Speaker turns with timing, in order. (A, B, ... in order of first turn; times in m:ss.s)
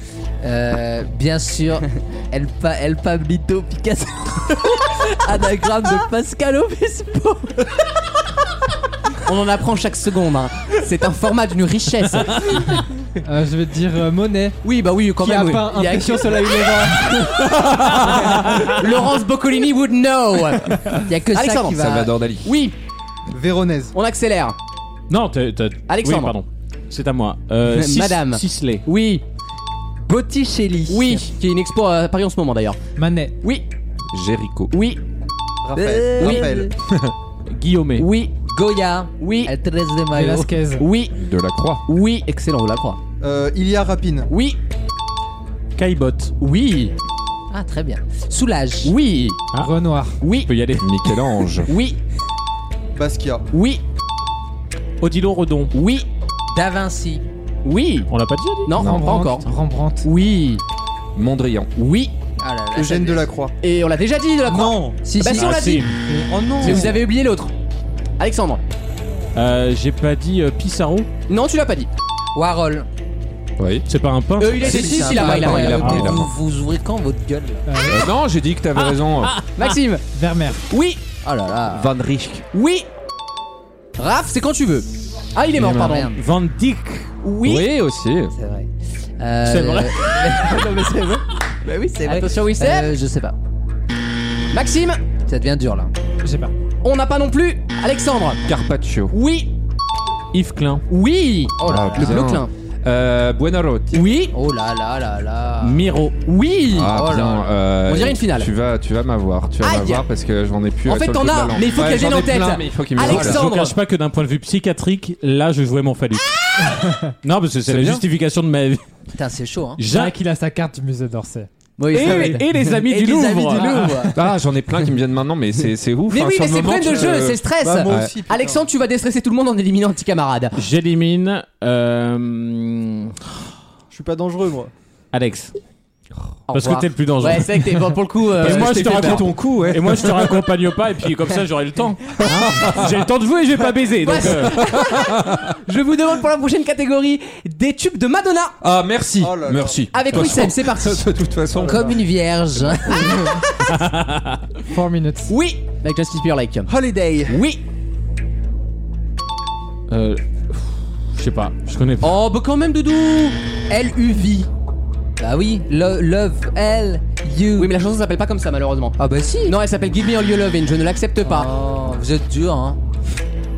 0:00.4-0:07.7 A
0:09.2-0:12.7 B
0:13.2-0:14.6 C
0:14.6-0:16.5 B
0:15.2-0:17.2 C
0:18.1-0:18.6 D
0:18.2-0:22.8 B
0:20.9-0:22.1 A
0:21.7-0:22.6 E
0:23.3-0:23.9 F
0:23.9-0:24.6 B
0:25.1-0:28.8 D
0:25.9-0:26.3 B
0:27.6-0:29.2 B
0:30.0-0:31.2 A
0:30.9-0:32.8 B
0:33.0-0:33.3 C
0:34.1-0:34.7 E
0:34.7-0:35.0 B
0:35.6-0:36.7 F
0:35.7-0:36.7 A
0:36.2-0:36.4 B
0:37.5-0:38.0 D
0:38.0-0:38.3 B
0:38.4-0:40.5 A
0:39.2-0:39.5 B
0:40.1-0:40.9 C
0:40.8-0:41.1 B
0:41.1-0:41.8 E
0:41.9-0:43.0 B
0:43.2-0:44.3 F
0:44.3-0:44.6 B
0:45.8-0:46.3 D
0:46.4-0:46.9 B
0:47.5-0:48.9 A
0:48.8-0:49.4 B
0:49.6-0:50.2 C
0:50.2-0:50.5 B
0:50.5-0:50.9 D
0:50.8-0:51.7 E
0:51.7-0:52.0 B
0:53.0-0:53.4 F
0:53.5-0:53.8 B
0:55.0-0:55.7 D
0:55.7-0:56.1 B
0:56.5-0:57.2 A
0:57.6-0:58.1 B
0:58.1-0:58.8 D
0:58.6-0:59.5 B
0:58.8-1:00.1 C
0:58.8-0:59.2 E
1:00.0-1:00.6 B
1:01.1-1:01.7 E
1:01.8-1:02.1 B
1:02.4-1:03.3 A
1:02.7-1:03.5 F
1:03.6-1:05.9 B
1:04.5-1:05.1 F
1:05.0-1:05.5 A
1:05.3-1:05.9 D
1:06.1-1:07.0 F
1:06.6-1:07.5 B
1:08.2-1:08.6 B
1:09.3-1:11.1 D
1:11.3-1:11.9 B
1:12.3-1:12.9 A
1:13.6-1:13.8 E
1:13.9-1:15.0 D
1:14.4-1:15.9 B
1:14.6-1:17.6 A
1:14.6-1:16.3 E
1:15.6-1:16.2 D
1:17.6-1:18.1 C
1:17.8-1:19.4 E
1:18.7-1:19.7 D
1:19.6-1:20.0 B
1:20.1-1:20.6 C
1:20.7-1:21.0 B
1:21.2-1:21.9 A
1:21.7-1:22.4 E
1:22.5-1:22.9 B
1:24.0-1:26.1 B
1:25.6-1:26.2 A
1:26.1-1:27.1 D
1:27.2-1:27.7 B
1:27.4-1:28.3 E
1:28.3-1:33.4 A
1:29.4-1:30.6 D
1:32.0-1:32.9 B
1:34.5-1:35.0 B
1:35.3-1:35.9 A
1:36.2-1:36.5 C
1:36.8-1:38.4 B
1:38.4-1:39.1 E
1:39.1-1:39.5 B
1:40.3-1:40.8 D
1:40.9-1:42.5 B
1:41.6-1:42.4 A
1:41.6-1:44.0 E
1:43.9-1:44.3 B
1:44.3-1:45.8 A
1:45.6-1:46.2 D
1:46.2-1:46.9 B
1:46.7-1:53.4 E
1:46.9-1:47.6 A
1:47.8-1:48.5 B
1:49.6-1:50.0 B
1:50.8-1:53.8 B
1:53.0-1:56.7 D
1:57.2-1:58.8 D
1:57.7-1:58.0 E
1:59.1-1:59.8 A
1:59.8-2:00.2 D
1:59.9-2:01.5 C
2:01.8-2:02.6 B
2:01.9-2:03.9 D
2:02.1-2:02.4 C
2:02.8-2:04.1 A
2:03.8-2:04.1 C
2:04.1-2:08.2 E
2:06.1-2:10.6 B
2:06.9-2:08.6 F
2:10.6-2:13.2 D
2:13.9-2:14.7 F
2:15.1-2:15.5 D
2:16.5-2:19.2 B
2:16.5-2:24.6 D
2:18.4-2:20.3 E
2:22.2-2:22.9 E
2:24.0-2:28.6 B
2:24.3-2:25.5 E
2:28.6-2:32.0 E
2:29.2-2:29.8 F
2:29.9-2:31.1 B
2:31.6-2:33.4 A
2:33.7-2:34.4 D
2:34.7-2:35.3 C
2:35.3-2:36.7 B
2:36.7-2:37.4 F
2:37.3-2:37.6 B
2:39.9-2:42.2 D
2:42.0-2:43.4 B
2:43.7-2:44.5 A
2:45.2-2:47.7 A
2:47.6-2:51.5 B
2:49.0-2:49.6 A
2:51.2-2:52.8 A